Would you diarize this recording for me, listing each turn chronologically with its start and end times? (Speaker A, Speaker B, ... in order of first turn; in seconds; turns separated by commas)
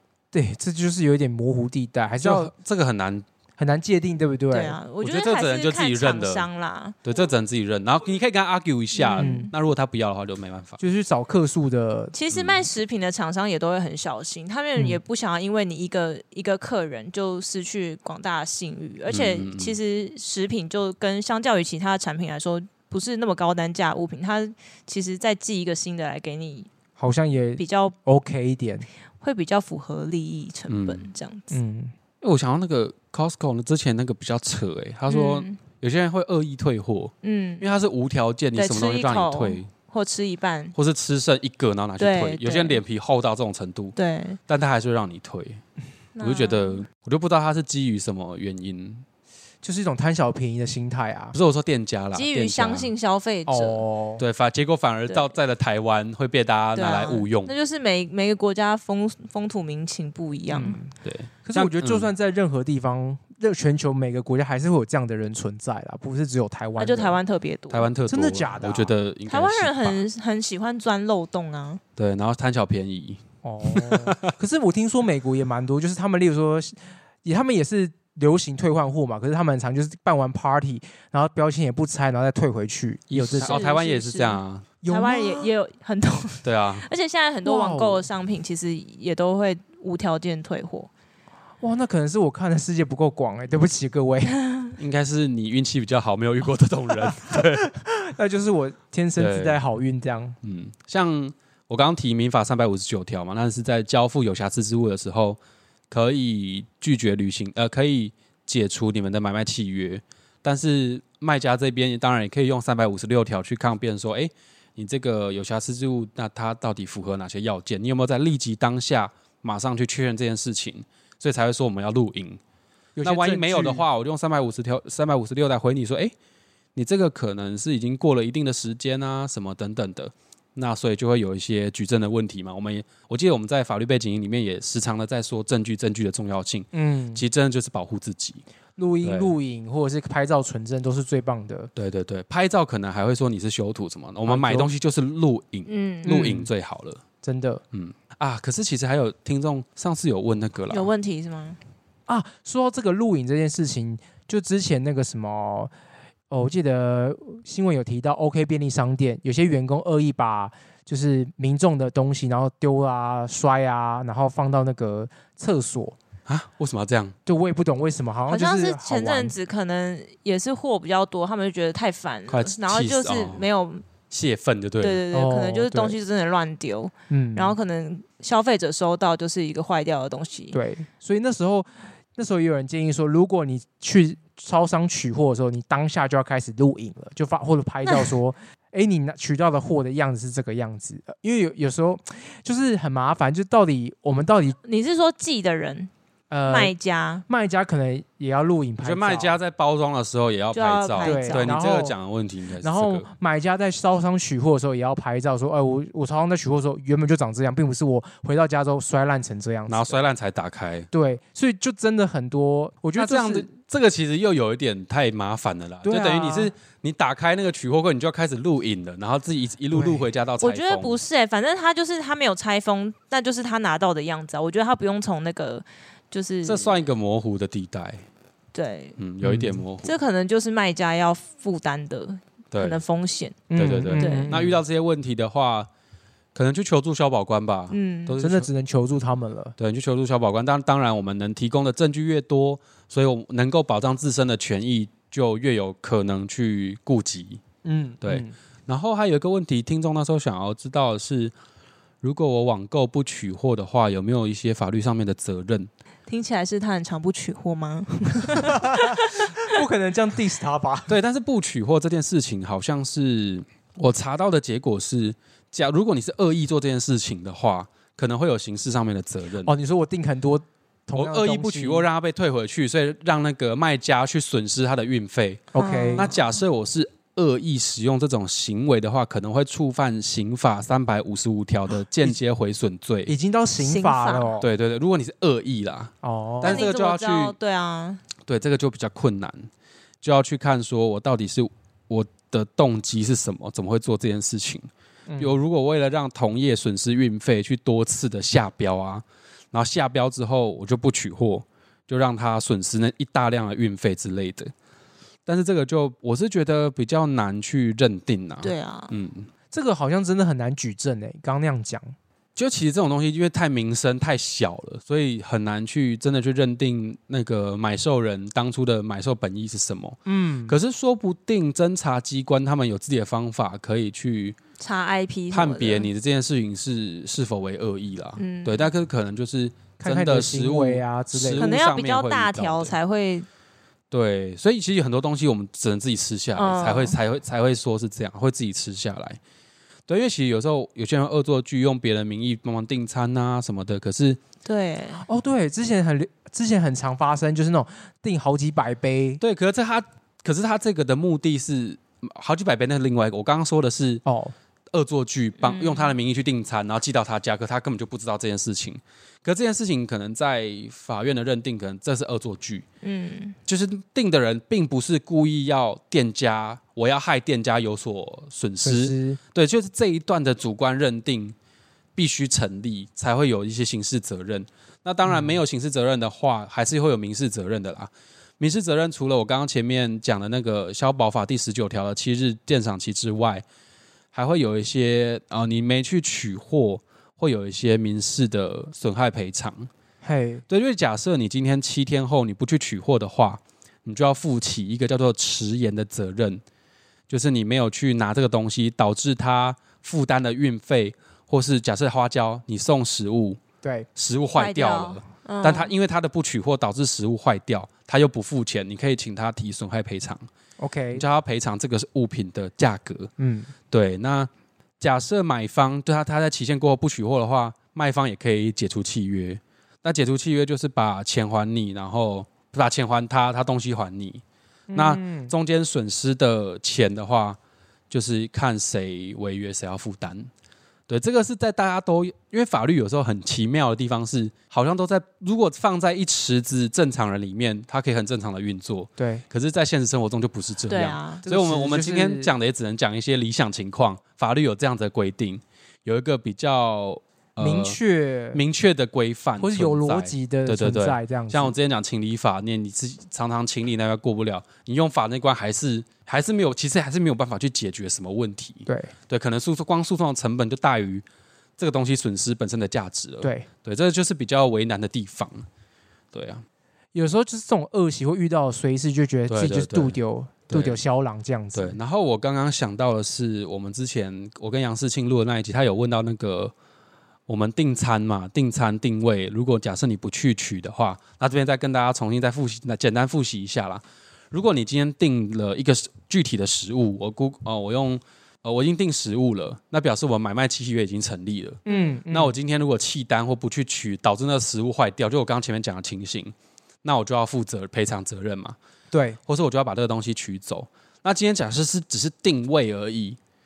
Speaker A: 0.3-2.5, Speaker B: 2.2-3.2, Speaker A: 3.6-4.8, Speaker C: 4.5-7.0, Speaker B: 5.0-6.5, Speaker B: 7.0-10.8, Speaker C: 8.9-9.5, Speaker A: 9.1-9.5, Speaker A: 10.8-12.1, Speaker C: 12.1-26.7, Speaker B: 12.3-12.6, Speaker A: 14.7-15.0, Speaker B: 19.1-19.8, Speaker A: 27.0-28.9, Speaker C: 27.6-27.9, Speaker C: 29.2-31.5, Speaker B: 30.7-31.1, Speaker A: 31.5-31.9, Speaker B: 32.2-39.7, Speaker C: 35.1-35.6, Speaker C: 37.2-37.6, Speaker C: 38.5-40.7, Speaker B: 40.7-43.9, Speaker C: 42.0-42.8, Speaker C: 43.9-44.4, Speaker B: 44.5-45.6, Speaker C: 46.1-46.8, Speaker B: 46.2-49.0, Speaker A: 49.6-51.3, Speaker B: 51.3-52.9, Speaker C: 52.1-53.9, Speaker A: 53.5-54.2, Speaker B: 54.2-57.5, Speaker C: 55.1-55.3, Speaker C: 56.7-60.8, Speaker A: 60.5-67.2, Speaker B: 61.0-62.1, Speaker C: 66.8-67.9, Speaker B: 67.7-70.0, Speaker A: 68.1-68.9, Speaker C: 69.3-71.8, Speaker B: 72.0-74.3, Speaker A: 73.4-83.6, Speaker B: 83.1-84.7, Speaker C: 83.4-90.9, Speaker A: 84.8-85.5, Speaker B: 86.4-86.9, Speaker A: 87.4-88.1, Speaker A: 91.6-94.4, Speaker B: 94.8-97.7, Speaker A: 97.0-100.4, Speaker B: 99.2-99.6, Speaker B: 100.4-105.4, Speaker B: 105.9-122.4, Speaker A: 123.0-123.8, Speaker B: 123.0-126.1, Speaker B: 126.7-138.4, Speaker A: 136.7-137.2, Speaker A: 138.8-141.7, Speaker B: 139.0-139.3, Speaker B: 141.8-147.0, Speaker A: 144.2-144.7, Speaker C: 145.7-146.2, Speaker A: 146.0-146.5, Speaker A: 147.2-147.6, Speaker B: 147.7-150.9, Speaker C: 150.7-151.6, Speaker A: 152.1-155.7, Speaker A: 156.3-165.9, Speaker B: 166.2-167.2, Speaker A: 167.2-169.4, Speaker C: 168.3-173.8, Speaker B: 172.3-173.5, Speaker B: 174.1-175.0, Speaker C: 174.8-180.6, Speaker A: 175.1-176.0, Speaker A: 177.1-177.6, Speaker A: 180.5-194.6, Speaker C: 187.8-188.2, Speaker C: 194.6-195.9, Speaker A: 196.3-196.7, Speaker C: 196.4-197.2, Speaker A: 197.3-199.4, Speaker B: 198.8-203.1, Speaker C: 200.5-201.6, Speaker A: 201.0-202.0, Speaker A: 202.6-210.1, Speaker B: 209.7-210.9, Speaker A: 210.9-213.5, Speaker B: 212.9-221.0, Speaker A: 215.8-216.5, Speaker A: 219.7-220.1, Speaker C: 220.4-226.8, Speaker B: 226.4-228.0, Speaker C: 228.5-229.0, Speaker B: 229.0-230.0, Speaker A: 229.2-229.6, Speaker C: 229.8-233.4, Speaker B: 232.5-232.8, Speaker A: 233.5-234.6, Speaker B: 233.5-235.7, Speaker C: 233.9-234.4, Speaker B: 236.3-238.5, Speaker C: 237.7-238.2, Speaker A: 238.2-239.6, Speaker B: 239.6-247.4, Speaker A: 247.6-248.3, Speaker B: 248.0-251.3, Speaker B: 252.0-255.7, Speaker C: 256.1-259.3, Speaker A: 258.3-260.9, Speaker B: 260.9-269.5, Speaker A: 269.4-271.9, Speaker B: 270.9-283.1, Speaker A: 275.5-276.0, Speaker C: 275.6-276.2, Speaker A: 283.1-284.5, Speaker C: 283.6-284.4, Speaker B: 284.4-287.4, Speaker A: 286.0-286.4, Speaker C: 286.4-288.0, Speaker B: 288.3-289.5, Speaker B: 290.0-304.5, Speaker A: 295.1-295.3, Speaker B: 305.2-309.3, Speaker C: 308.4-308.9, Speaker A: 309.5-311.9, Speaker B: 312.4-324.4, Speaker A: 320.1-320.5, Speaker C: 324.6-325.9, Speaker B: 325.3-332.7, Speaker C: 328.2-328.7, Speaker A: 329.8-331.6, Speaker C: 331.4-333.3, Speaker B: 333.9-339.2, Speaker C: 336.3-337.0, Speaker B: 339.9-344.2, Speaker C: 344.4-345.0, Speaker A: 345.0-349.2, Speaker B: 349.2-354.0, Speaker A: 354.1-354.3, Speaker B: 354.7-362.6, Speaker C: 355.4-355.9, Speaker C: 362.8-363.4, Speaker B: 363.4-371.4, Speaker A: 368.6-369.2, Speaker B: 371.9-383.4, Speaker A: 375.1-375.4, Speaker B: 384.1-389.7, Speaker A: 390.0-390.4, Speaker B: 390.5-396.4, Speaker B: 397.1-403.4, Speaker A: 403.6-403.9, Speaker B: 403.9-410.3, Speaker C: 404.3-405.7, Speaker A: 410.6-411.0, Speaker B: 410.9-413.1, Speaker A: 413.2-413.5, Speaker B: 413.7-424.2, Speaker A: 424.7-425.3, Speaker B: 424.7-427.4, Speaker B: 427.9-430.3, Speaker B: 430.9-447.8, Speaker A: 439.0-439.2, Speaker C: 440.7-441.2, Speaker A: 441.2-442.3, Speaker A: 447.4-448.4, Speaker B: 448.3-461.0, Speaker A: 449.4-451.6, Speaker A: 458.6-458.9, Speaker B: 461.6-465.4, Speaker A: 463.2-463.5, Speaker B: 466.1-466.4, Speaker A: 466.9-471.8, Speaker B: 469.3-470.0, Speaker B: 470.5-470.8, Speaker B: 471.5-476.5, Speaker B: 477.3-498.6, Speaker A: 491.6-492.3, Speaker A: 498.9-499.2, Speaker B: 499.3-503.2